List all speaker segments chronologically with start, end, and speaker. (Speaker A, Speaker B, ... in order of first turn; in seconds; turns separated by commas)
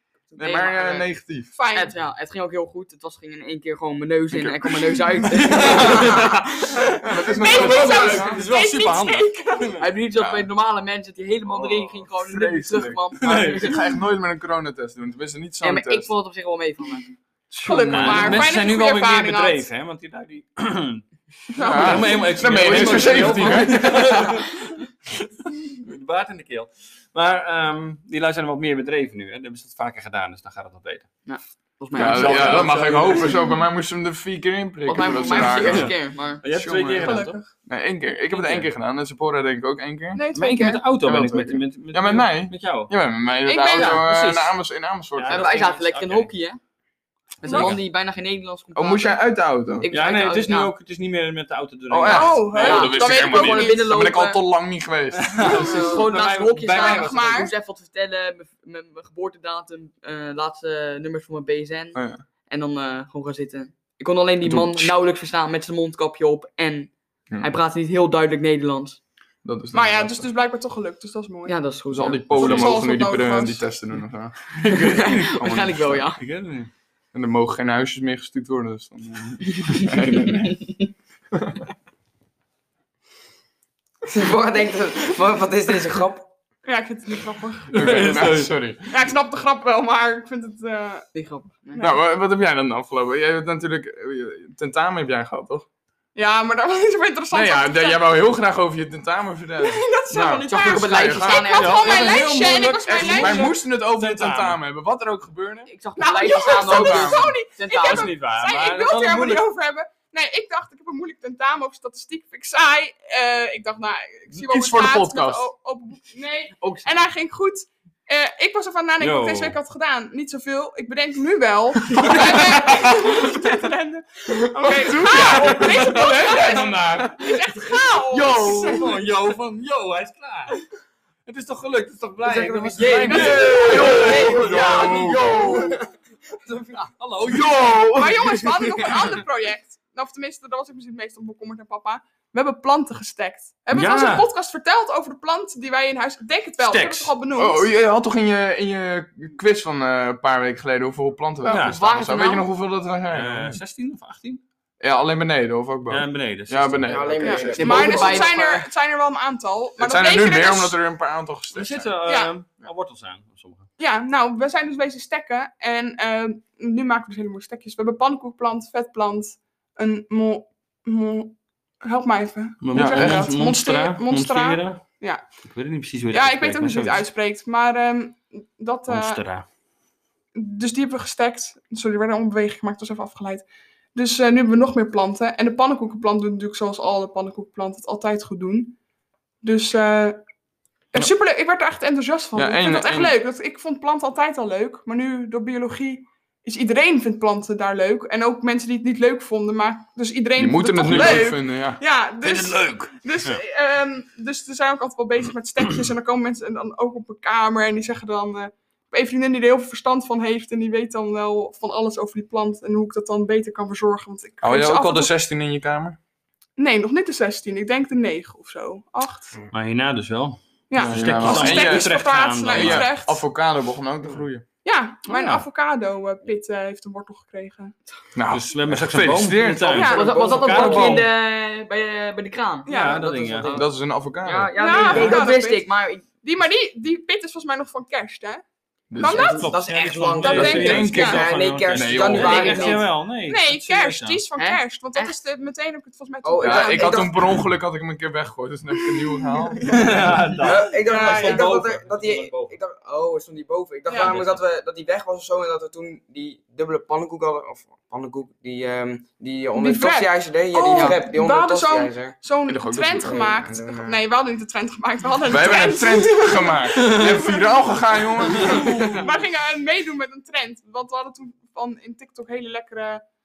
Speaker A: 0.3-1.1, Speaker B: 0.4-1.5, Speaker C: 1.5-1.9, Speaker A: 1.7-6.9, Speaker B: 4.3-6.1, Speaker D: 5.3-6.4, Speaker B: 7.0-8.5, Speaker C: 7.2-9.8, Speaker D: 7.4-9.9, Speaker A: 9.8-13.8, Speaker B: 10.2-10.5, Speaker B: 11.5-16.1, Speaker D: 13.2-13.8, Speaker A: 15.6-17.1, Speaker B: 17.5-18.4, Speaker C: 17.6-19.7, Speaker D: 17.9-24.6, Speaker C: 21.6-23.0, Speaker B: 21.6-24.4, Speaker A: 22.7-23.4, Speaker D: 25.8-31.1, Speaker A: 31.3-33.2, Speaker B: 31.9-40.2, Speaker D: 31.9-33.3, Speaker A: 34.9-36.4, Speaker D: 35.2-37.5, Speaker C: 37.0-37.5, Speaker D: 38.3-38.6, Speaker C: 40.1-40.9, Speaker D: 40.3-42.9, Speaker B: 41.0-45.6, Speaker C: 43.5-44.1, Speaker A: 43.7-44.6, Speaker D: 45.2-46.3, Speaker A: 45.3-46.6, Speaker A: 47.4-49.2, Speaker C: 47.5-47.8, Speaker D: 47.5-47.8, Speaker B: 48.8-49.9, Speaker A: 49.8-50.7, Speaker D: 49.9-52.6, Speaker B: 51.9-55.7, Speaker C: 52.1-53.9, Speaker A: 52.5-54.5, Speaker D: 55.2-57.5, Speaker A: 55.5-69.0, Speaker C: 56.7-57.5, Speaker B: 62.0-62.2, Speaker B: 64.4-64.9, Speaker B: 69.4-70.3, Speaker C: 69.7-71.7, Speaker A: 71.5-72.8, Speaker B: 71.9-76.1, Speaker C: 72.3-73.7, Speaker A: 74.7-76.2, Speaker D: 74.7-75.5, Speaker D: 76.2-76.7, Speaker B: 77.1-80.8, Speaker B: 81.3-81.6, Speaker E: 84.1-86.3, Speaker C: 86.7-88.2, Speaker D: 87.7-88.5, Speaker B: 87.7-89.1, Speaker C: 88.9-91.1, Speaker A: 91.1-92.0, Speaker B: 91.8-95.7, Speaker C: 96.2-98.2, Speaker B: 97.3-101.8, Speaker C: 99.6-103.5, Speaker A: 100.4-102.2, Speaker D: 101.5-104.6, Speaker B: 103.0-105.7, Speaker A: 105.7-108.2, Speaker C: 106.0-128.9, Speaker B: 106.5-107.3, Speaker D: 107.7-109.5, Speaker B: 114.3-115.5, Speaker A: 116.6-117.0, Speaker D: 119.0-119.6, Speaker B: 121.9-122.9, Speaker D: 122.0-123.2, Speaker B: 124.6-127.3, Speaker D: 125.0-127.1, Speaker B: 128.1-128.9, Speaker D: 128.1-130.6, Speaker D: 131.3-135.8, Speaker E: 132.2-134.8, Speaker A: 132.8-135.1, Speaker B: 133.0-135.8, Speaker C: 133.1-133.8, Speaker D: 136.5-139.1, Speaker B: 137.3-138.3, Speaker C: 137.9-147.7, Speaker D: 143.7-144.3, Speaker D: 146.6-147.1, Speaker B: 147.4-153.6, Speaker D: 151.5-151.8, Speaker A: 151.5-152.5, Speaker D: 153.1-154.4, Speaker B: 154.8-158.1, Speaker D: 155.9-157.3, Speaker E: 156.9-158.2, Speaker A: 157.2-158.7, Speaker C: 157.2-160.8, Speaker B: 159.8-161.9, Speaker D: 161.5-163.7, Speaker C: 162.1-162.3, Speaker C: 163.8-175.2, Speaker D: 172.6-177.1, Speaker B: 172.7-173.2, Speaker C: 176.1-179.2, Speaker D: 178.9-179.5, Speaker C: 180.3-188.8, Speaker C: 189.4-190.2, Speaker C: 190.9-215.1, Speaker B: 192.3-193.2, Speaker B: 200.4-201.8, Speaker D: 200.8-201.2, Speaker D: 202.2-203.4, Speaker B: 214.4-216.0, Speaker C: 216.6-219.4, Speaker D: 219.5-222.9, Speaker C: 220.7-223.2, Speaker B: 220.8-221.9, Speaker B: 222.5-224.5, Speaker C: 224.6-227.7, Speaker A: 225.1-225.4, Speaker B: 228.1-229.9, Speaker D: 228.3-231.1, Speaker C: 229.7-230.3, Speaker A: 229.9-233.7, Speaker E: 229.9-231.0, Speaker C: 232.7-233.1, Speaker D: 232.7-233.5, Speaker E: 233.0-233.7, Speaker B: 233.5-234.5, Speaker A: 234.2-236.1, Speaker C: 234.6-238.4, Speaker E: 234.8-235.3, Speaker D: 234.9-235.1, Speaker B: 238.9-239.4, Speaker C: 238.9-239.5, Speaker E: 239.0-242.9, Speaker D: 239.1-244.2, Speaker C: 240.2-241.2, Speaker B: 240.4-242.4, Speaker A: 242.1-242.8, Speaker C: 243.1-247.1, Speaker A: 244.4-245.2, Speaker E: 246.2-247.4, Speaker B: 246.4-250.5, Speaker C: 249.3-249.6, Speaker D: 249.6-252.6, Speaker E: 250.4-262.2, Speaker C: 250.8-251.6, Speaker A: 251.2-251.4, Speaker C: 253.9-254.2, Speaker D: 254.0-254.4, Speaker C: 259.5-267.5, Speaker A: 260.6-261.0, Speaker B: 262.5-263.4, Speaker E: 263.0-264.0, Speaker B: 265.3-269.2, Speaker C: 268.3-273.0